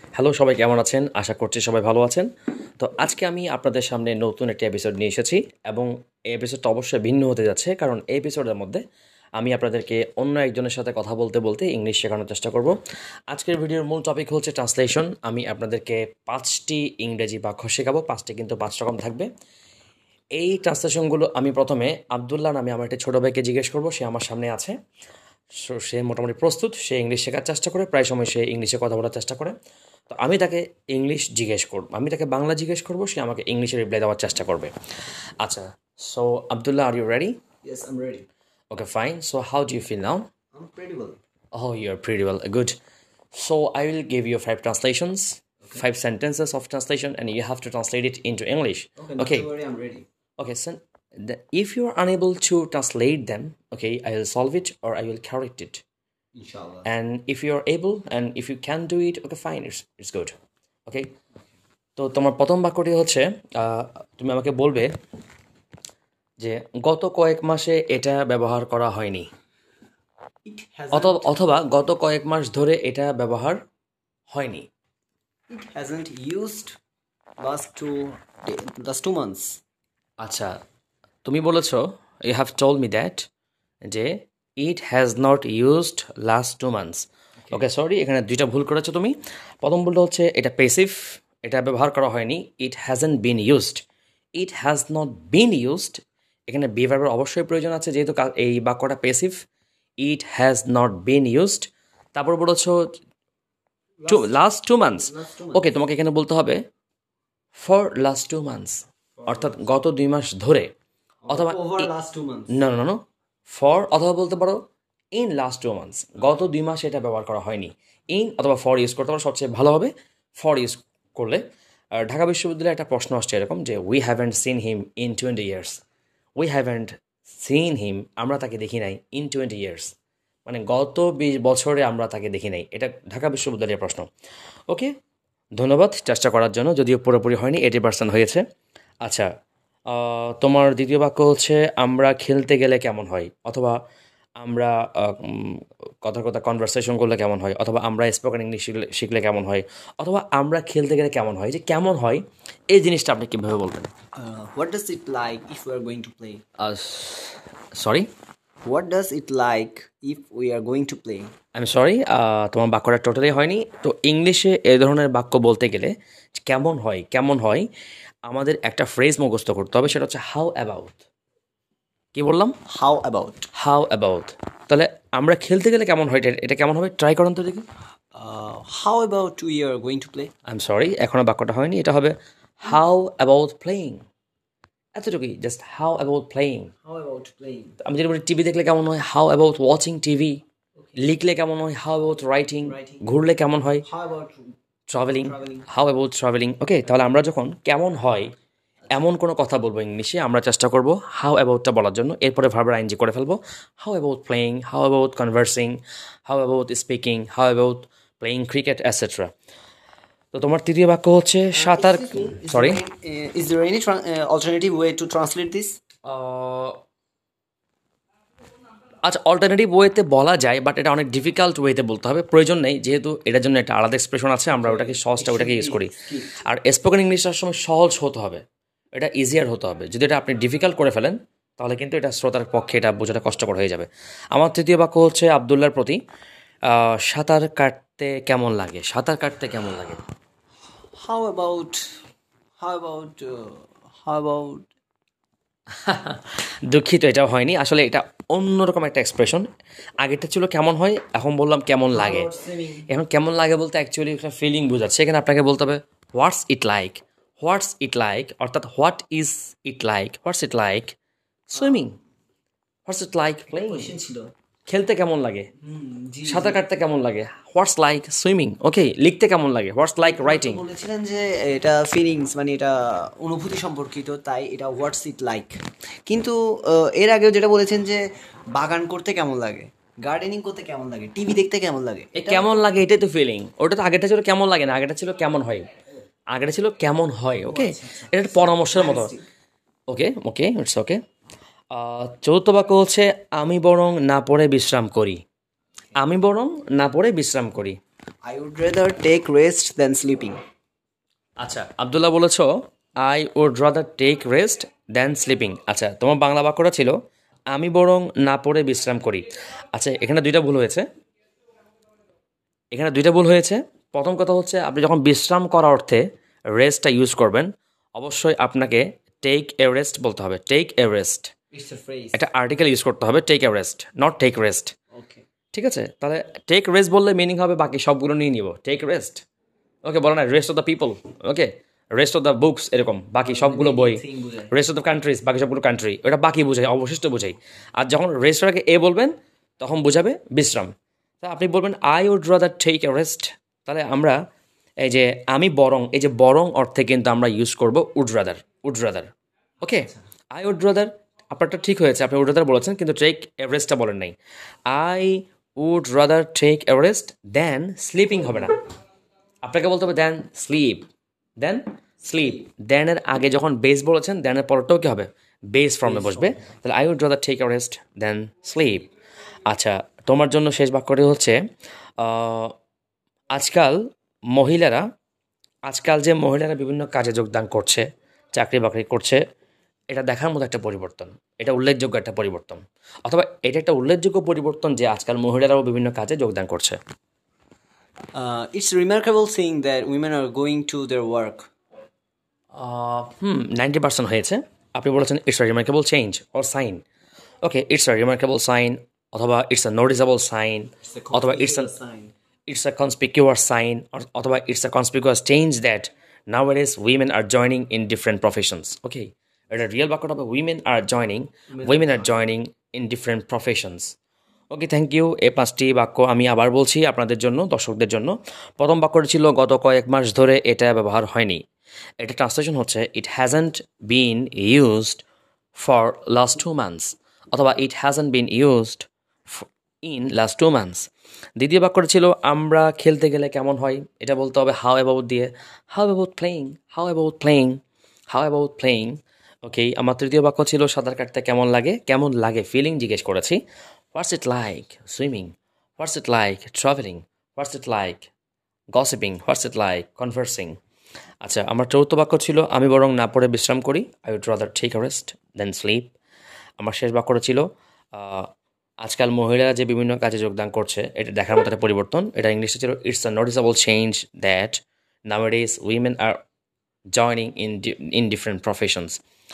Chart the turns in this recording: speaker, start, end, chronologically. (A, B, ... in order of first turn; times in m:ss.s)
0:00.2-0:02.3 A
0:02.8-0:08.8 A
0:09.4-0:12.8 A
0:13.3-0:19.3 A
0:20.4-0:24.7 A
0:25.6-0:29.5 A
0:30.1-0:34.7 A
0:35.4-0:37.4 A
0:37.6-0:38.2 B
0:38.7-0:40.2 A
0:40.5-0:41.2 B
0:41.5-0:42.8 A
0:43.3-0:49.5 A
0:49.0-0:50.1 B
0:50.4-0:55.8 A
0:56.3-0:56.9 B
0:56.8-1:00.3 A
1:02.0-1:04.9 A
1:06.4-1:09.3 A
1:10.4-1:11.4 B
1:10.9-1:13.6 A
1:14.3-1:14.7 A
1:15.5-1:16.8 B
1:17.4-1:19.6 B
1:20.2-1:20.5 A
1:21.2-1:23.2 A
1:23.8-1:33.8 A
1:34.4-1:39.4 A
1:40.0-1:42.8 A
1:44.0-1:45.8 B
1:44.1-1:46.6 A
1:47.5-1:50.7 A
1:49.2-1:49.6 B
1:51.2-1:52.5 B
1:51.3-1:51.9 A
1:52.5-1:53.0 A
1:53.5-1:54.6 A
1:55.1-2:01.4 A
2:01.9-2:05.8 A
2:06.4-2:09.9 A
2:10.4-2:14.0 A
2:15.6-2:18.4 A
2:19.9-2:23.8 A
2:24.4-2:33.9 A
2:34.1-2:36.4 B
2:36.6-2:38.1 A
2:38.6-2:41.3 B
2:41.5-2:47.7 A
2:48.3-2:51.0 A
2:52.1-2:52.5 A
2:52.7-2:53.5 B
2:53.5-2:57.6 A
2:58.1-3:00.3 B
3:00.5-3:04.0 A
3:05.0-3:06.7 A
3:06.8-3:07.8 B
3:07.8-3:10.4 A
3:11.0-3:13.8 A
3:12.6-3:13.0 B
3:13.8-3:14.5 B
3:14.9-3:18.3 A
3:15.2-3:15.7 B
3:18.9-3:29.3 A
3:30.3-3:32.8 A
3:31.5-3:35.8 B
3:36.0-3:36.8 A
3:39.0-3:48.4 A
3:44.5-3:46.4 B
3:48.9-3:56.0 A
3:56.7-4:00.0 A
4:01.0-4:01.8 B
4:02.6-4:04.7 B
4:05.8-4:09.4 A
4:10.0-4:12.3 A
4:11.9-4:12.9 B
4:12.9-4:21.0 A
4:21.5-4:22.0 A
4:21.6-4:21.9 B
4:22.9-4:23.9 A
4:23.5-4:24.3 B
4:24.7-4:25.5 A
4:25.6-4:26.6 B
4:26.2-4:30.6 A
4:30.0-4:42.5 B
4:42.1-4:45.7 A
4:46.3-4:49.1 A
4:47.4-4:49.2 B
4:49.9-4:51.0 A
4:51.7-4:55.2 A
4:56.0-4:57.8 A
4:58.2-5:00.4 B
5:01.4-5:02.5 A
5:03.0-5:06.9 A
5:07.5-5:10.8 A
5:12.7-5:16.0 A
5:16.5-5:21.3 A
5:21.5-5:22.2 B
5:22.1-5:24.7 A
5:24.9-5:25.2 B
5:25.5-5:29.2 A
5:29.8-5:44.1 A
5:33.2-5:34.5 B
5:44.8-5:49.1 A
5:49.6-5:54.1 A
5:54.7-5:58.6 A
5:59.4-6:00.8 A
6:01.4-6:08.9 A
6:02.0-6:02.4 B
6:05.8-6:06.5 B
6:09.5-6:11.4 A
6:12.0-6:12.5 A
6:13.3-6:13.8 A
6:14.3-6:14.8 A
6:15.7-6:19.2 A
6:19.9-6:26.8 A
6:28.1-6:31.5 B
6:32.5-6:36.8 A
6:37.4-6:41.7 A
6:40.8-6:42.1 B
6:42.5-6:53.9 A
6:51.5-6:52.2 B
6:54.5-7:01.4 A
7:02.0-7:05.0 A
7:05.6-7:10.8 A
7:11.4-7:17.6 A
7:18.1-7:23.4 A
7:23.9-7:28.1 A
7:28.7-7:30.5 A
7:31.2-7:35.9 A
7:36.6-7:38.3 A
7:38.8-7:46.2 A
7:46.9-7:49.0 A